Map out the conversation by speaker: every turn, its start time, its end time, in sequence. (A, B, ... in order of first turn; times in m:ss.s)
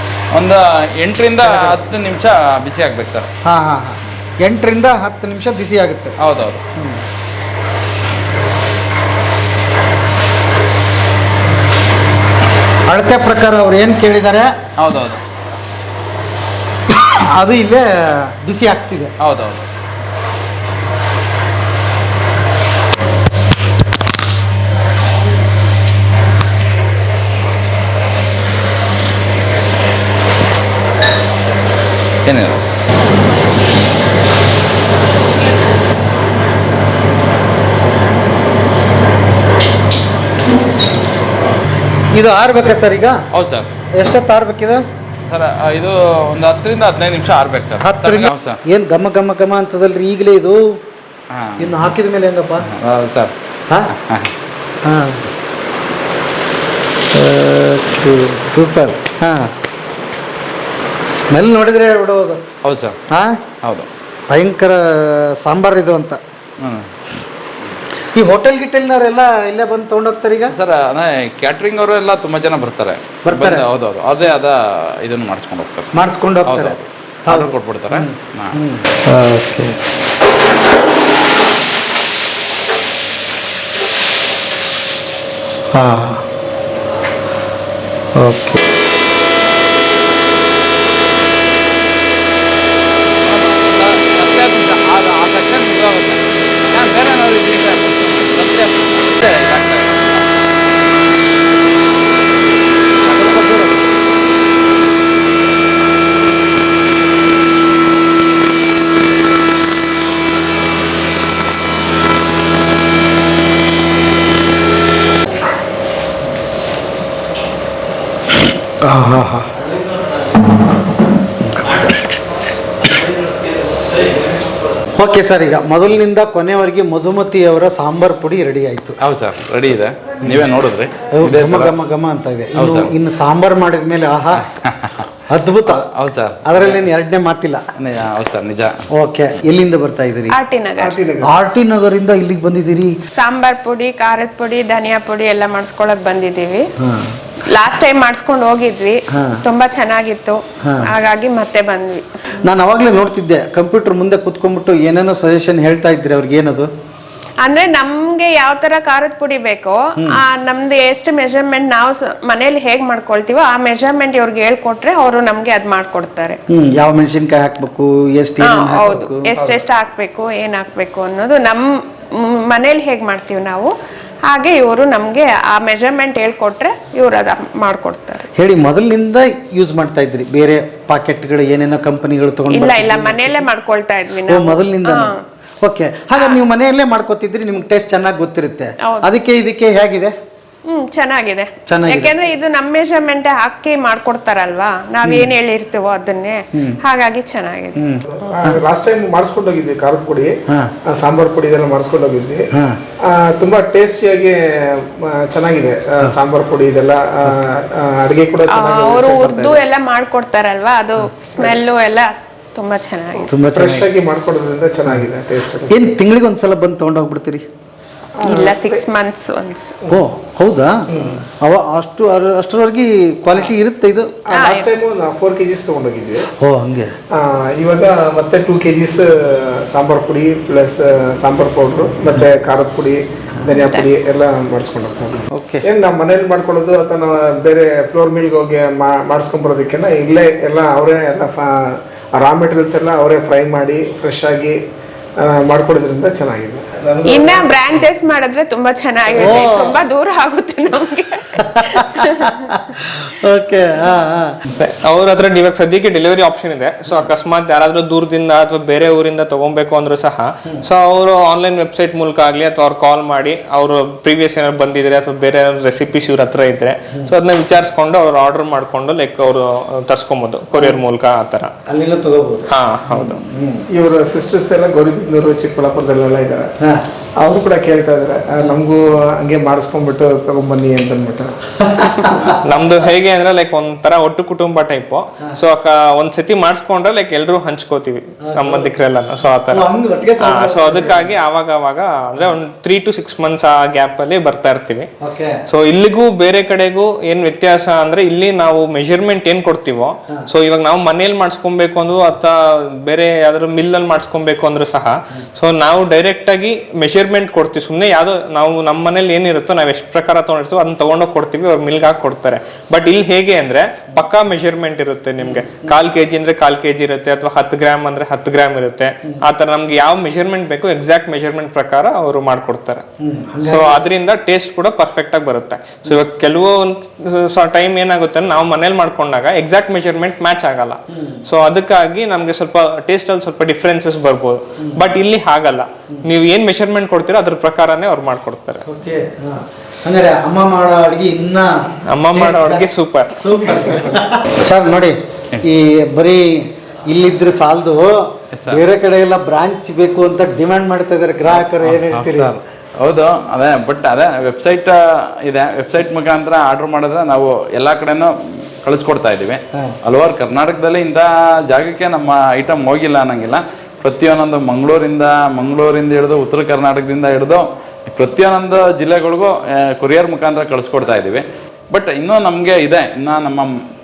0:00.3-0:03.2 A
0:01.4-0:01.8 B
0:03.4-0:06.2 B
0:06.2-0:06.6 A
0:06.8-0:07.0 B
0:12.9-0:14.5 B
0:14.8-0:15.2 A
0:16.9-0:19.1 B
0:19.2-0:19.6 A
0:32.2-0:32.6 A
0:42.1-0:43.2 B
0:43.3-0:43.7 A
0:43.9-0:44.8 B
0:45.3-0:48.6 A
0:47.8-0:50.8 B
0:51.3-0:51.8 A
0:51.6-0:52.7 B
0:52.6-0:53.3 A
0:53.9-0:54.3 A
0:54.8-0:55.2 B
0:57.1-0:59.5 B
1:01.1-1:02.4 B
1:02.6-1:03.0 A
1:03.1-1:03.4 B
1:03.6-1:03.9 A
1:04.3-1:06.2 B
1:06.6-1:07.2 A
1:08.1-1:10.5 B
1:10.5-1:15.9 A
1:13.2-1:13.6 B
1:15.9-1:19.8 B
1:16.4-1:18.6 A
1:25.7-1:26.2 B
1:28.2-1:28.6 B
1:33.2-1:40.3 A
1:43.0-1:43.8 A
1:58.8-1:59.5 B
2:01.4-2:01.8 B
2:05.0-2:09.0 B
2:09.0-2:11.7 A
2:11.1-2:14.4 B
2:12.5-2:12.9 A
2:14.3-2:15.1 A
2:15.3-2:15.8 B
2:15.7-2:16.8 A
2:16.4-2:17.6 B
2:17.8-2:18.8 A
2:18.9-2:20.3 B
2:20.3-2:21.0 C
2:20.8-2:21.3 D
2:21.2-2:23.0 B
2:23.1-2:26.7 C
2:26.8-2:27.1 B
2:27.5-2:32.5 C
2:29.1-2:29.4 B
2:30.6-2:30.9 B
2:32.4-2:36.7 B
2:37.4-2:46.4 C
2:46.5-2:49.2 B
2:48.4-2:53.7 C
2:49.3-2:49.6 D
2:54.3-2:58.3 C
2:58.4-3:03.4 B
3:02.5-3:05.2 C
3:04.3-3:10.1 B
3:06.1-3:06.4 C
3:08.8-3:09.1 C
3:10.7-3:18.5 C
3:11.7-3:12.1 B
3:15.0-3:15.3 B
3:16.5-3:16.8 B
3:17.8-3:18.6 B
3:18.1-3:20.3 D
3:20.8-3:22.5 D
3:22.5-3:22.8 B
3:23.0-3:29.6 D
3:28.5-3:33.3 C
3:33.3-3:33.9 B
3:33.5-3:35.8 D
3:35.7-3:37.4 B
3:38.2-3:38.8 D
3:38.2-3:39.8 C
3:39.9-3:44.2 B
3:40.9-3:41.2 D
3:44.3-3:46.3 D
3:44.3-3:44.7 C
3:46.3-3:46.9 B
3:47.1-4:04.6 D
3:53.6-3:53.9 C
3:55.3-3:55.6 B
4:05.2-4:07.8 D
4:07.0-4:12.5 C
4:09.1-4:09.5 D
4:09.2-4:09.7 B
4:11.4-4:14.4 B
4:14.5-4:31.5 E
4:31.6-4:33.6 B
4:32.5-4:33.2 E
4:33.7-4:36.5 D
4:37.2-4:41.4 D
4:41.6-4:42.4 B
4:42.4-4:49.7 E
4:48.2-4:48.7 B
4:49.5-4:51.1 B
4:50.2-4:54.9 E
4:55.0-4:55.4 B
4:55.5-5:22.8 E
5:15.2-5:15.7 B
5:23.0-5:23.8 B
5:23.4-5:38.6 E
5:30.9-5:31.2 B
5:34.6-5:34.9 B
5:38.6-5:52.3 B
5:41.9-5:43.7 E
5:48.3-5:48.6 A
5:51.3-6:13.6 A